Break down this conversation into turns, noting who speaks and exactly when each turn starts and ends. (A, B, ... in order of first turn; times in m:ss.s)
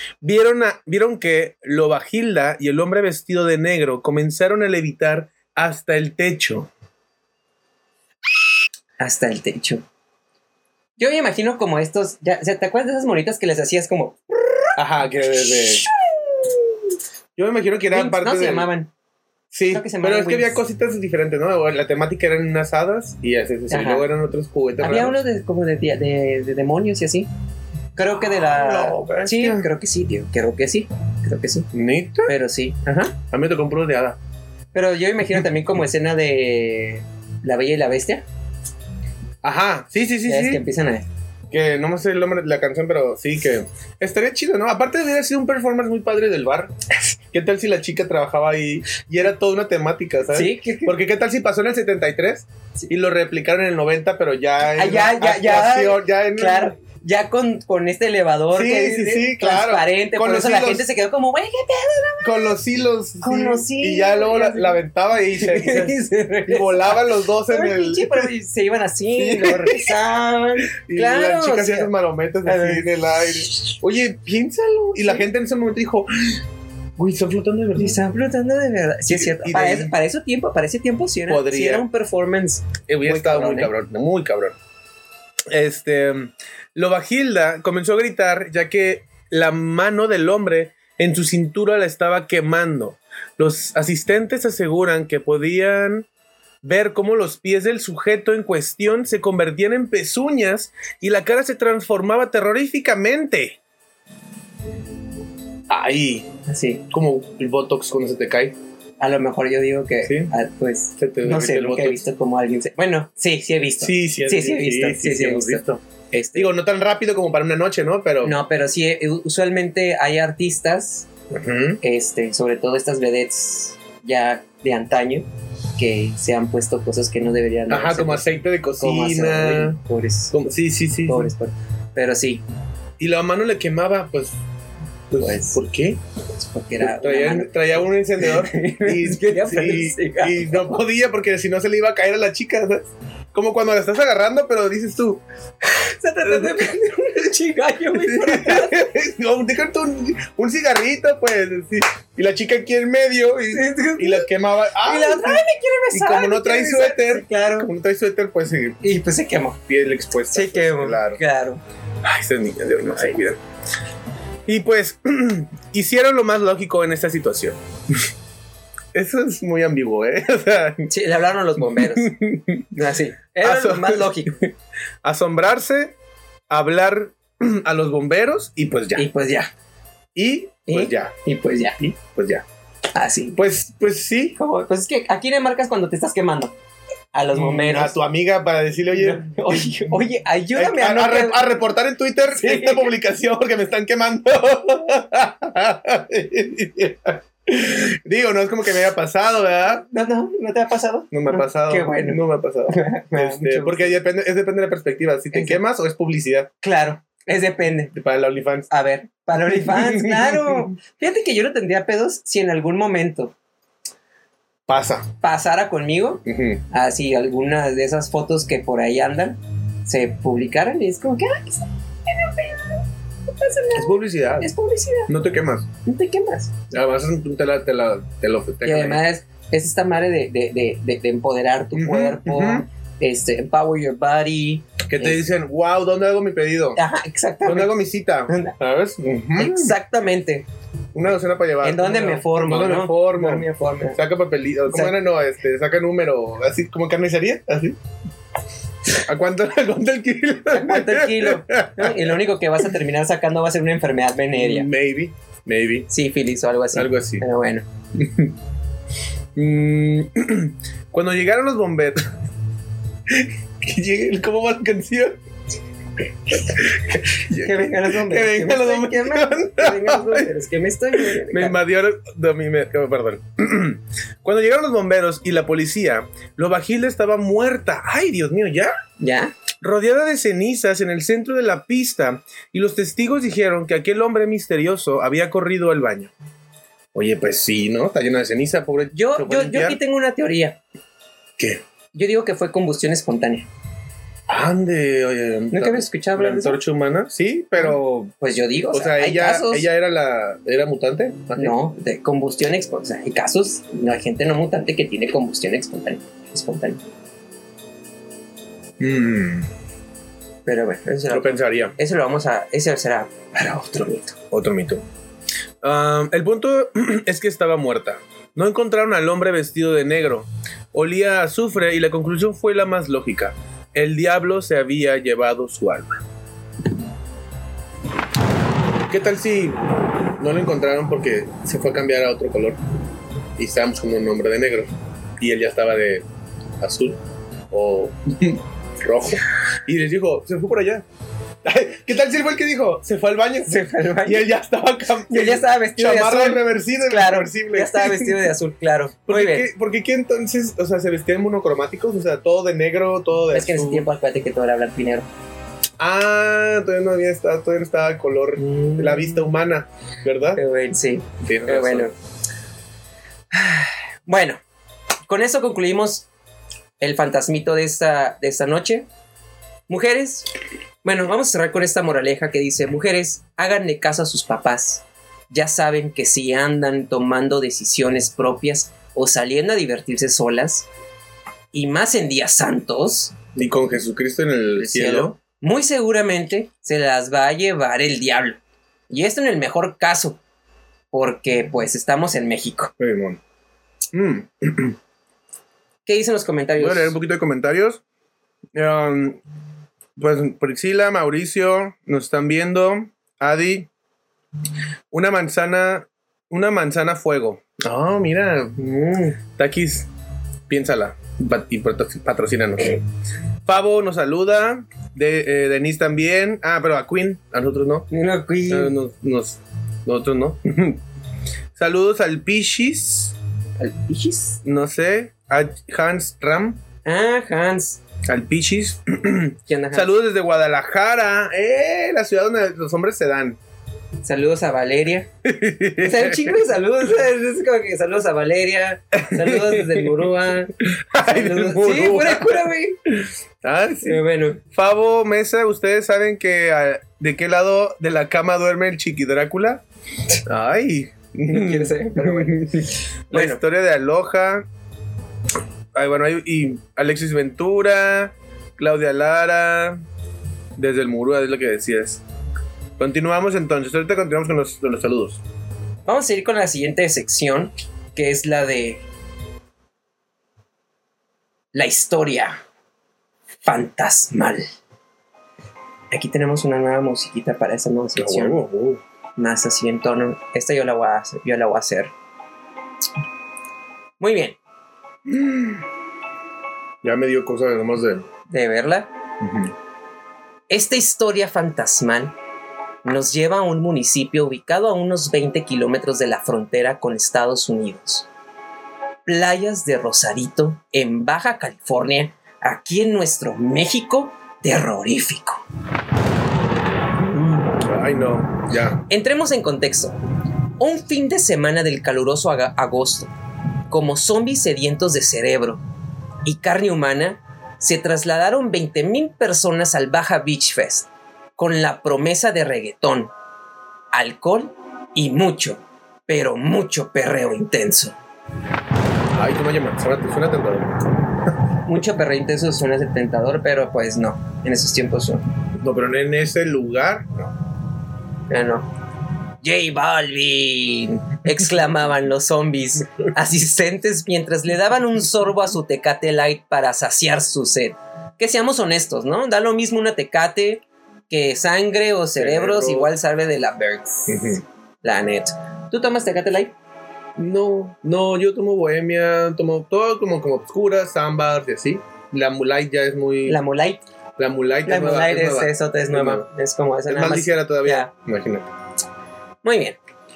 0:00.2-0:06.7 A
0:09.0-0:09.8 B
0:11.0-0:14.7 B
0:14.8-0:15.9 A
0:17.4-0:18.7 A
0:17.9-0:18.9 B
0:19.5-0:25.2 A
0:19.7-0:20.6 B
0:23.7-0:24.1 B
0:24.8-0:27.3 B
0:28.0-0:31.7 B
0:28.2-0:29.7 A
0:31.7-0:32.3 A
0:32.3-0:33.2 B
0:33.3-0:34.2 A
0:34.7-0:38.2 B
0:39.4-0:40.6 A
0:40.3-0:41.1 B
0:41.5-0:46.7 A
0:47.3-0:56.7 A
0:50.3-0:51.0 B
0:54.7-1:02.6 B
0:58.5-1:00.9 A
1:02.2-1:08.3 A
1:03.2-1:04.8 B
1:05.3-1:11.9 B
1:09.2-1:10.0 A
1:10.7-1:16.4 A
1:12.4-1:12.8 B
1:17.0-1:18.0 A
1:17.8-1:23.7 B
1:19.1-1:19.9 A
1:21.3-1:21.9 A
1:22.9-1:24.6 A
1:25.5-1:36.1 A
1:36.6-1:43.6 A
1:45.7-1:46.3 A
1:46.5-1:46.9 B
1:46.9-1:48.6 A
1:49.0-1:56.5 B
1:50.0-1:50.3 A
1:51.0-1:52.0 A
1:53.8-1:55.8 A
1:56.3-1:58.4 A
1:58.2-2:01.1 B
2:01.3-2:01.8 A
2:01.8-2:08.3 B
2:07.7-2:09.8 A
2:08.8-2:10.4 B
2:10.3-2:11.3 A
2:11.0-2:12.4 B
2:13.0-2:14.4 A
2:15.1-2:16.0 A
2:15.2-2:15.6 B
2:16.3-2:20.8 B
2:16.8-2:25.2 A
2:25.7-2:28.9 B
2:26.2-2:26.8 A
2:27.9-2:38.8 A
2:33.5-2:37.7 B
2:38.8-2:39.6 B
2:39.7-2:41.2 A
2:40.3-2:41.6 B
2:42.0-2:43.4 A
2:44.4-2:48.0 A
2:48.9-2:50.9 A
2:50.9-2:52.1 B
2:51.6-2:52.8 A
2:52.7-2:54.4 B
2:53.4-2:54.5 A
2:55.0-2:55.9 A
2:56.5-2:59.1 A
2:59.0-2:59.5 B
3:00.1-3:01.1 A
3:00.7-3:01.8 B
3:01.8-3:02.4 A
3:02.9-3:03.4 B
3:03.4-3:04.4 A
3:04.4-3:06.5 B
3:07.1-3:08.0 B
3:07.3-3:10.0 A
3:08.9-3:11.5 B
3:10.5-3:19.8 A
3:12.3-3:12.9 B
3:19.9-3:24.0 B
3:21.1-3:26.5 A
3:25.3-3:25.6 B
3:26.6-3:27.9 B
3:27.9-3:28.7 A
3:28.7-3:33.3 B
3:29.4-3:30.7 A
3:34.7-3:35.1 A
3:35.2-3:45.1 B
3:36.2-3:36.6 A
3:43.7-3:44.5 A
3:45.1-3:45.7 A
3:45.8-3:46.5 B
3:46.7-3:49.0 A
3:48.6-3:55.2 B
3:51.7-3:52.6 A
3:54.9-3:56.8 A
3:56.8-3:57.7 B
3:57.4-3:59.7 A
3:58.3-3:58.5 B
3:59.4-4:00.4 B
4:00.9-4:07.8 A
4:01.6-4:04.0 B
4:04.7-4:04.9 B
4:08.9-4:12.2 A
4:10.5-4:14.7 B
4:14.3-4:15.9 A
4:15.9-4:17.6 B
4:16.7-4:17.2 A
4:17.9-4:18.3 A
4:19.4-4:22.1 A
4:23.1-4:25.2 A
4:26.3-4:30.3 A
4:27.4-4:31.6 B
4:30.9-4:38.7 A
4:39.0-4:39.3 B
4:39.6-4:46.1 A
4:46.9-4:49.8 A
4:48.9-4:50.6 B
4:51.9-4:53.5 B
4:54.3-4:58.1 A
4:55.5-4:56.6 B
4:57.6-4:59.7 B
4:58.7-5:01.6 A
5:01.4-5:06.8 B
5:08.8-5:09.5 A
5:10.4-5:14.2 B
5:11.1-5:11.7 A
5:14.3-5:14.8 A
5:15.6-5:26.0 A
5:28.9-5:29.6 A
5:30.2-5:32.6 A
5:33.4-5:36.0 A
5:36.6-5:37.0 A
5:37.5-5:40.8 A
5:41.4-5:48.3 A
5:43.5-5:44.2 B
5:45.1-5:49.5 B
5:49.1-5:53.9 A
5:53.3-5:55.1 B
5:55.8-6:00.4 A
5:58.4-5:59.2 B
6:00.4-6:01.9 B
6:01.2-6:01.9 A
6:03.3-6:04.4 B
6:05.1-6:06.1 B
6:06.8-6:08.8 B
6:09.7-6:10.3 B
6:10.8-6:20.7 B
6:21.5-6:23.2 B
6:23.3-6:25.2 A
6:24.6-6:30.2 B
6:30.9-6:32.7 B
6:32.8-6:33.2 A
6:33.9-6:34.8 A
6:35.8-6:36.9 B
6:36.6-6:37.8 A
6:38.5-6:39.2 A
6:40.0-6:43.7 A
6:44.9-6:48.6 A
6:48.6-6:49.2 B
6:49.3-6:49.9 A
6:50.5-6:52.8 A
6:53.4-6:57.9 A
6:57.9-6:58.7 B
6:58.5-7:00.8 A
7:01.6-7:03.1 A
7:03.6-7:04.4 B
7:04.4-7:06.6 A
7:06.8-7:07.8 B
7:08.0-7:13.4 A
7:09.5-7:09.9 B
7:14.0-7:15.1 B
7:15.2-7:16.4 A
7:15.8-7:22.8 B
7:18.9-7:20.1 A
7:20.6-7:29.6 A
7:23.8-7:24.4 B
7:30.2-7:34.4 A
7:31.3-7:33.4 B
7:35.7-7:39.8 A
7:40.6-7:42.0 A
7:42.8-7:45.2 A
7:45.8-7:48.8 B
7:51.5-7:52.4 B
7:53.4-7:54.4 B
7:55.9-7:58.4 B
7:58.0-7:58.8 A
7:59.2-8:01.9 B
8:04.0-8:04.4 B
8:05.0-8:05.6 A
8:06.8-8:08.1 A
8:08.3-8:08.9 B
8:09.2-8:09.5 A
8:10.5-8:12.1 B
8:12.8-8:18.1 B
8:19.0-8:25.4 B
8:27.1-8:28.8 A
8:28.9-8:30.0 B
8:30.6-8:33.1 B
8:33.7-8:35.6 B
8:36.2-8:43.1 B
8:43.9-8:48.0 B
8:49.1-8:50.8 A
8:51.6-8:55.2 B
8:55.6-8:57.3 A
8:58.3-8:58.7 B
8:59.4-9:16.5 B
9:12.2-9:12.9 A
9:14.1-9:14.4 A
9:17.2-9:23.4 A
9:23.2-9:23.8 B
9:24.2-9:26.3 A
9:24.6-9:27.9 B
9:26.9-9:28.5 A
9:29.4-9:29.8 B